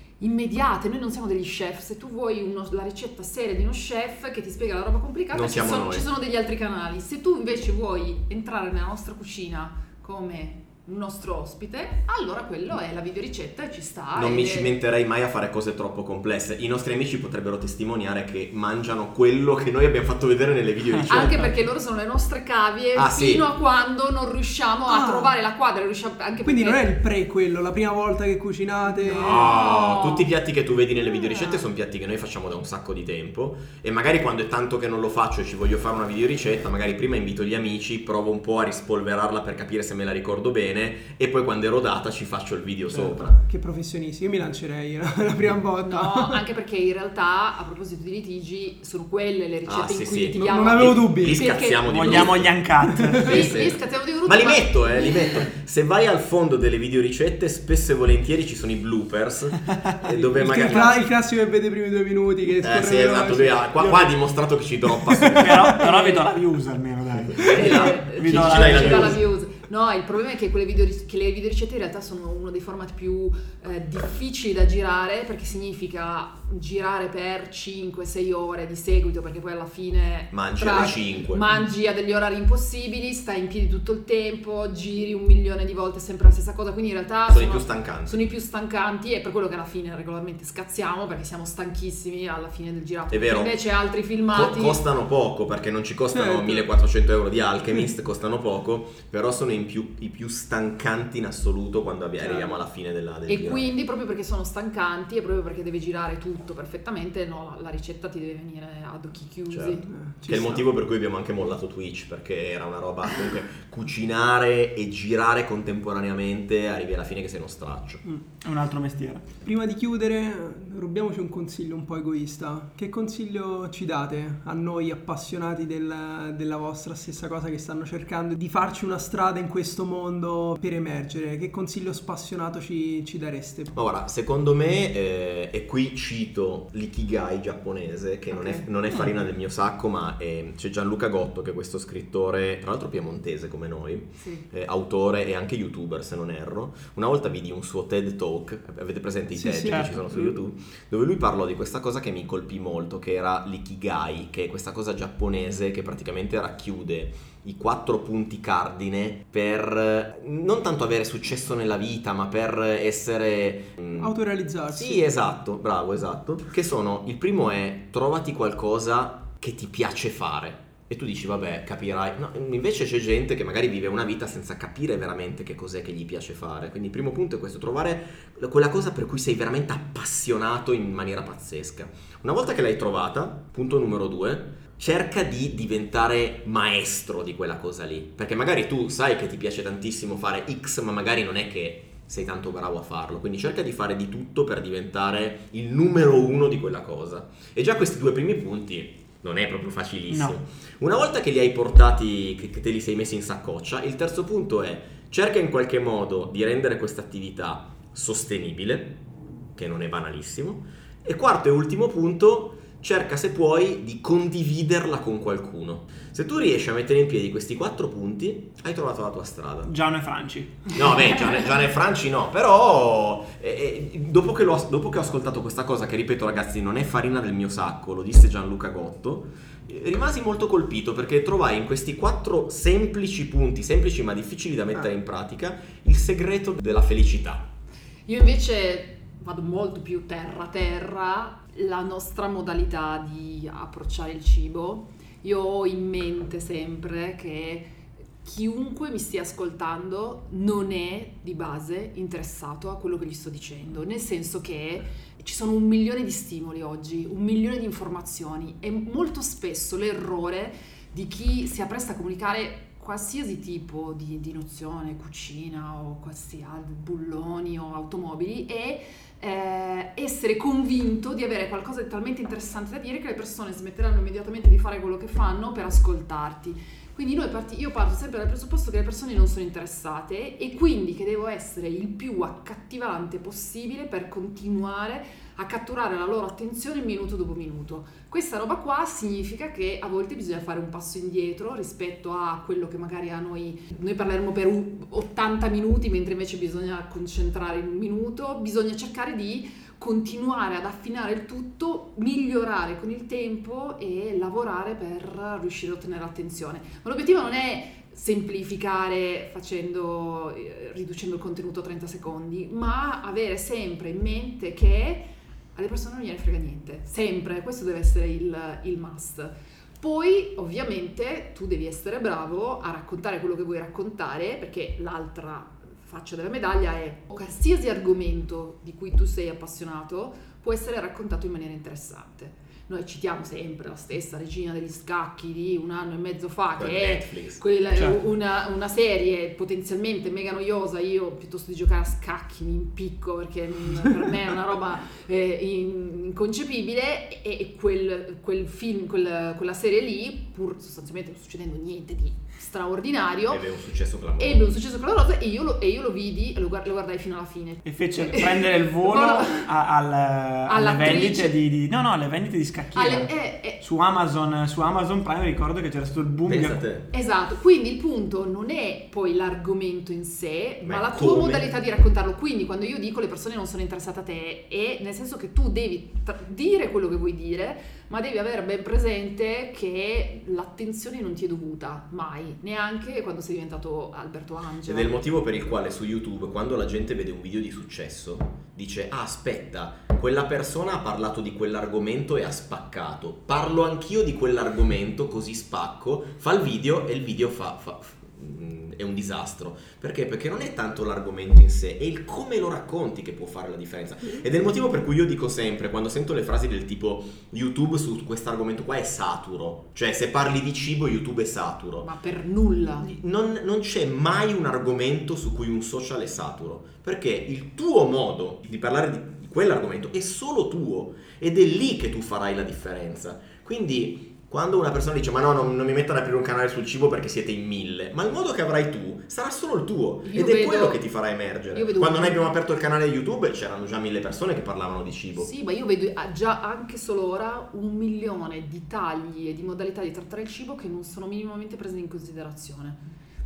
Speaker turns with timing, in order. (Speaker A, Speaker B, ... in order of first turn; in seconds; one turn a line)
Speaker A: 0.2-14.7
Speaker B: 5.3-6.0
Speaker B: 14.1-21.5
Speaker A: 21.1-26.9
Speaker B: 22.9-23.4
Speaker C: 24.9-25.3
Speaker C: 26.4-29.5
Speaker A: 29.0-30.3
Speaker B: 29.0-43.4
Speaker A: 31.1-31.6
Speaker C: 42.9-46.4
Speaker A: 45.9-52.2
Speaker B: 49.6-61.0
Speaker C: 50.4-51.5
Speaker D: 51.8-53.5
Speaker C: 52.8-53.2
Speaker A: 53.2-55.5
Speaker C: 60.3-63.9
Speaker B: 62.6-65.8
Speaker C: 65.1-66.1
Speaker D: 65.2-69.2
Speaker B: 67.3-69.2
Speaker A: 67.5-94.8
Speaker B: 80.3-81.5
Speaker B: 87.2-88.3
Speaker B: 93.1-93.6
Speaker B: 94.3-103.7
Speaker C: 96.1-96.7
Speaker C: 102.2-102.5
Speaker A: 103.3-109.9
Speaker B: 109.5-118.0
Speaker C: 109.9-110.7
Speaker D: 118.0-119.3
Speaker C: 119.4-133.7
Speaker B: 133.7-164.2
Speaker A: 138.3-138.7
Speaker C: 149.4-150.4
Speaker D: 149.6-150.1
Speaker C: 163.9-165.1
Speaker B: 164.7-209.0
Speaker D: 200.1-200.4
Speaker B: 209.6-219.7
Speaker D: 219.7-221.0
Speaker B: 220.7-237.5
Speaker A: 238.1-353.4
Speaker B: 336.6-337.4
Speaker B: 353.3-354.5
Speaker A: 354.2-359.5
Speaker D: 357.6-366.6
Speaker A: 360.5-361.3
Speaker A: 362.7-363.6
Speaker B: 366.2-366.9
Speaker A: 366.9-385.0
Speaker B: 370.6-371.5
Speaker B: 384.6-411.9
Speaker A: 411.8-412.9
Speaker B: 412.8-435.3
Speaker A: 430.0-430.8
Speaker A: 431.5-432.2
Speaker A: 435.2-442.8